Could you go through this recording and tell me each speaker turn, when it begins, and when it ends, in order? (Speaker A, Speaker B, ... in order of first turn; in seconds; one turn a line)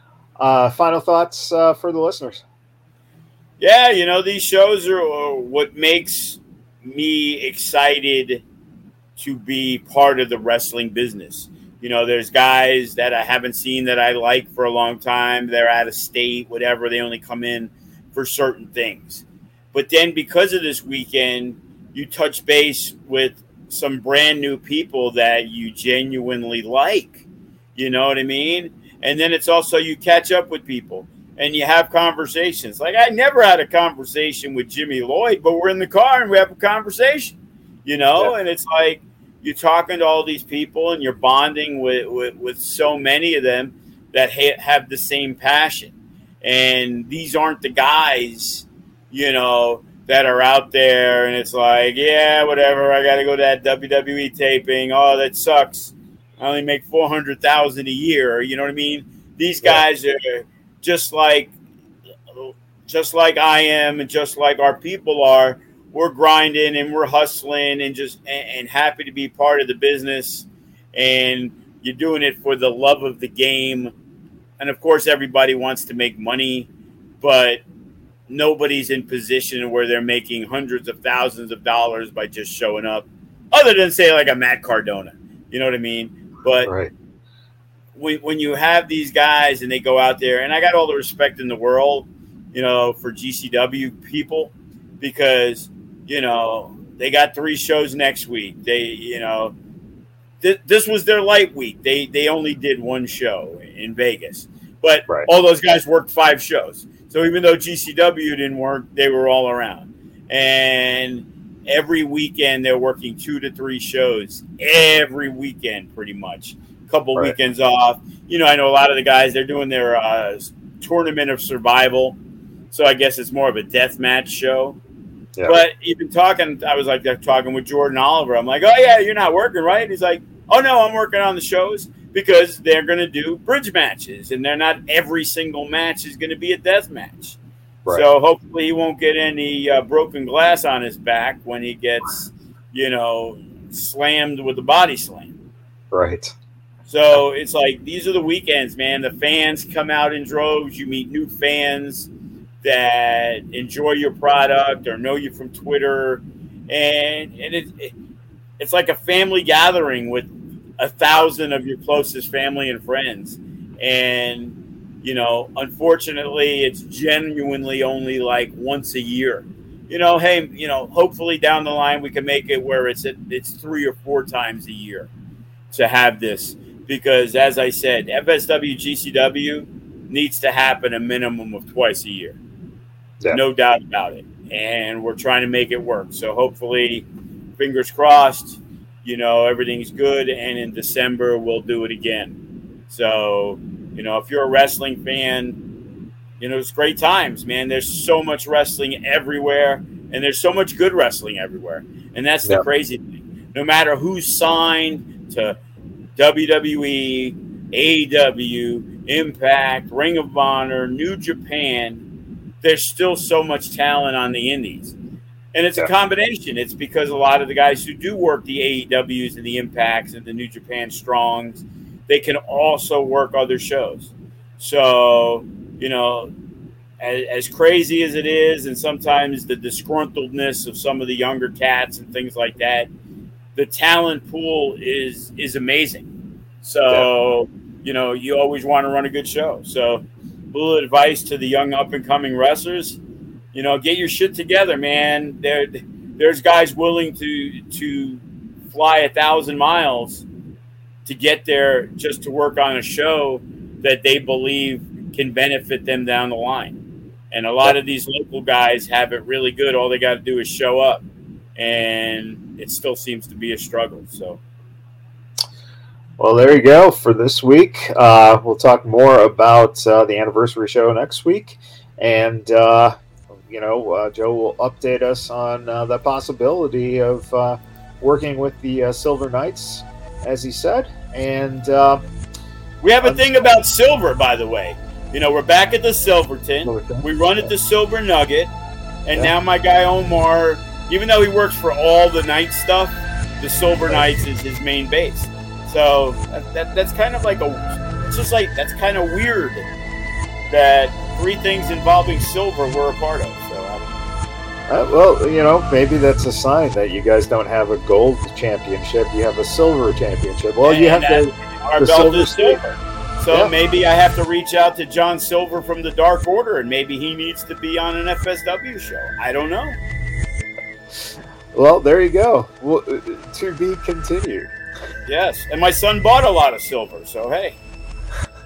Speaker A: 0.4-2.4
Speaker B: 3.6-8.4
Speaker B: 9.2-27.2
Speaker B: 27.8-61.5
Speaker B: 62.4-73.9
Speaker B: 74.6-76.7
Speaker B: 77.2-77.6
Speaker B: 78.3-86.7
Speaker A: 86.6-86.9
Speaker B: 88.0-99.5
Speaker B: 100.4-122.2
Speaker B: 122.7-124.8
Speaker B: 125.5-137.4
Speaker B: 137.9-145.3
Speaker A: 145.9-146.3
Speaker B: 146.9-152.1
Speaker B: 152.6-157.9
Speaker B: 158.6-175.1
Speaker B: 175.7-182.4
Speaker B: 183.3-187.1
Speaker B: 187.6-192.4
Speaker B: 192.9-195.6
Speaker B: 196.4-205.6
Speaker B: 206.2-212.1
Speaker B: 212.6-215.0
Speaker B: 215.5-226.3
Speaker B: 227.0-232.9
Speaker B: 233.6-236.1
Speaker B: 236.6-243.0
Speaker B: 243.5-250.3
Speaker B: 251.1-256.8
Speaker B: 257.3-261.0
Speaker B: 261.6-264.4
Speaker A: 266.2-282.0
Speaker B: 282.8-288.5
Speaker A: 286.6-287.5
Speaker B: 289.1-299.7
Speaker B: 300.5-303.9
Speaker A: 304.7-312.7
Speaker B: 310.6-312.6
Speaker B: 313.2-319.8
Speaker A: 321.1-324.5
Speaker B: 325.1-327.6